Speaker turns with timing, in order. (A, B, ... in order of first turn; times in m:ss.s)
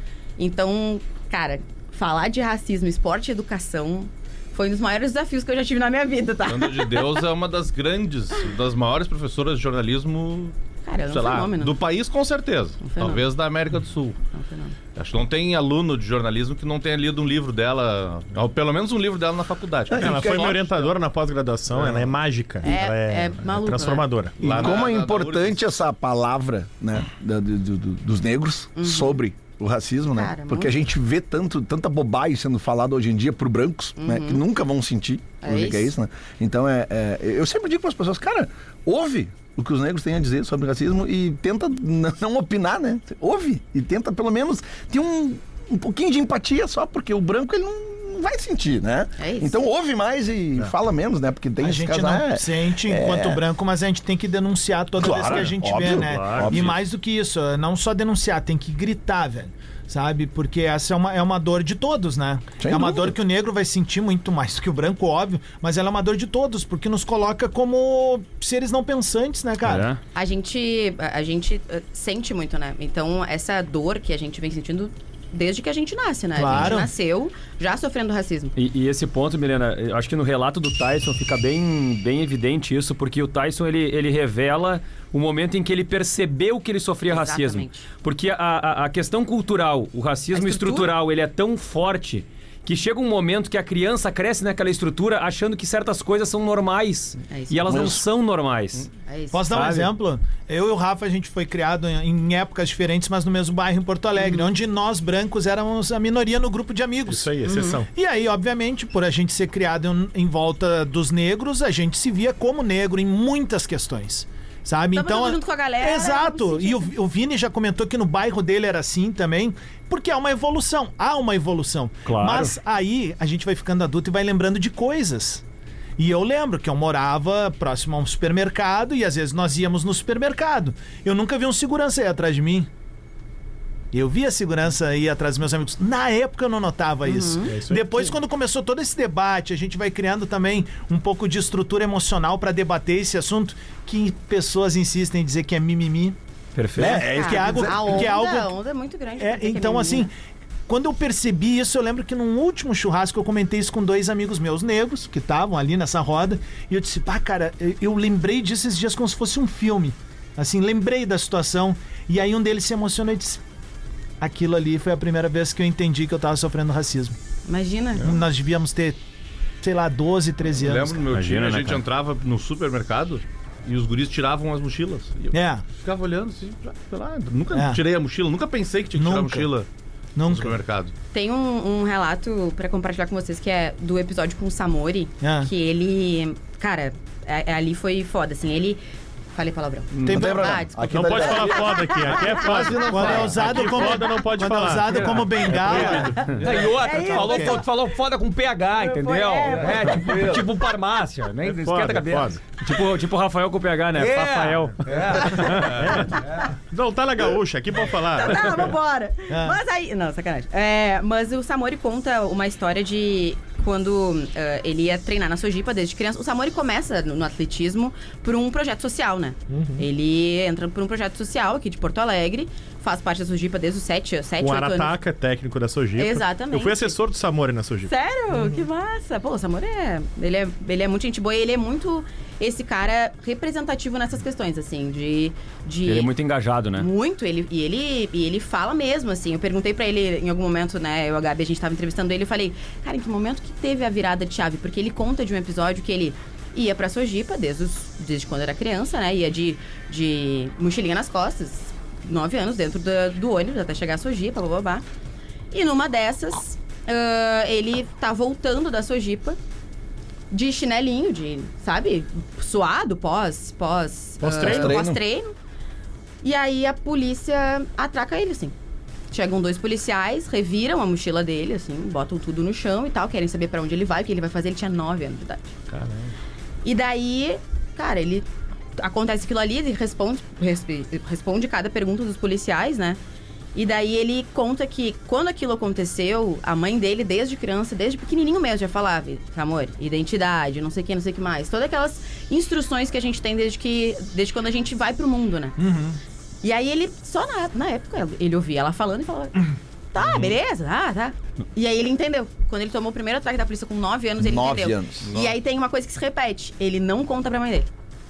0:00.4-0:07.2 A
0:06.4-0:10.5 B
0:10.8-0:11.8 A
0:11.0-0:14.2 B
0:12.8-0:13.2 A
0:14.3-0:14.8 A
0:14.9-0:20.9 B
0:19.9-0:20.6 C
0:19.9-0:24.6 D
0:21.7-0:22.1 B
0:22.6-0:24.1 A
0:24.4-0:25.6 B
0:24.4-0:53.4 C
0:28.8-0:29.2 A
0:30.1-0:30.7 A
0:34.0-0:34.4 A
0:35.4-0:35.9 A
0:49.2-0:49.6 A
0:51.6-1:09.9 E
0:55.0-0:56.8 C
0:55.1-0:56.7 F
1:02.6-1:03.2 C
1:09.6-1:10.0 F
1:10.1-1:18.5 A
1:16.3-1:16.9 E
1:18.5-1:38.9 F
1:27.1-1:27.9 A
1:30.3-1:30.9 A
1:37.3-1:37.9 A
1:37.7-1:38.0 C
1:39.0-1:39.5 A
1:39.3-2:05.4 E
1:39.5-1:39.9 F
1:44.2-1:44.5 A
1:47.1-1:47.9 D
1:47.4-1:47.8 A
1:54.9-1:56.9 A
2:02.0-2:02.5 F
2:06.0-2:12.7 E
2:13.9-2:26.2 E
2:17.0-2:17.6 A
2:17.5-2:18.0 D
2:26.5-2:27.1 F
2:26.8-2:28.1 C
2:26.8-2:28.5 E
2:26.9-2:30.1 A
2:29.2-2:30.1 E
2:30.7-2:43.4 E
2:44.2-2:47.2 E
2:47.5-2:48.1 A
2:48.0-2:49.0 E
2:49.6-2:51.0 E
2:50.5-2:59.7 B
2:51.1-2:51.8 F
2:55.3-2:55.6 E
2:57.5-2:57.8 E
2:59.0-2:59.5 E
3:00.2-3:00.6 E
3:00.3-3:00.9 B
3:01.1-3:08.8 A
3:05.2-3:05.5 E
3:09.3-3:13.2 A
3:10.0-3:11.8 C
3:10.0-3:10.6 E
3:10.8-3:16.3 D
3:12.4-3:13.6 B
3:12.8-3:17.6 E
3:15.6-3:22.4 G
3:16.2-3:17.6 A
3:18.7-3:20.4 A
3:19.7-3:20.4 B
3:21.4-3:22.4 D
3:22.6-3:25.7 F
3:23.9-3:26.2 G
3:25.6-3:28.6 D
3:27.9-3:45.0 A
3:29.3-3:29.6 E
3:39.5-3:39.8 D
3:44.4-3:48.6 D
3:46.0-3:47.0 A
3:47.9-3:56.1 A
3:55.8-3:56.9 F
3:56.8-4:14.8 A
4:15.5-4:19.4 A
4:20.3-4:25.3 A
4:24.2-4:24.8 D
4:24.3-4:25.0 C
4:26.2-4:28.5 A
4:29.1-4:35.6 A
4:36.6-4:43.0 A
4:43.5-4:55.6 A
4:55.6-4:56.0 E
4:56.4-5:07.7 A
5:04.2-5:05.2 C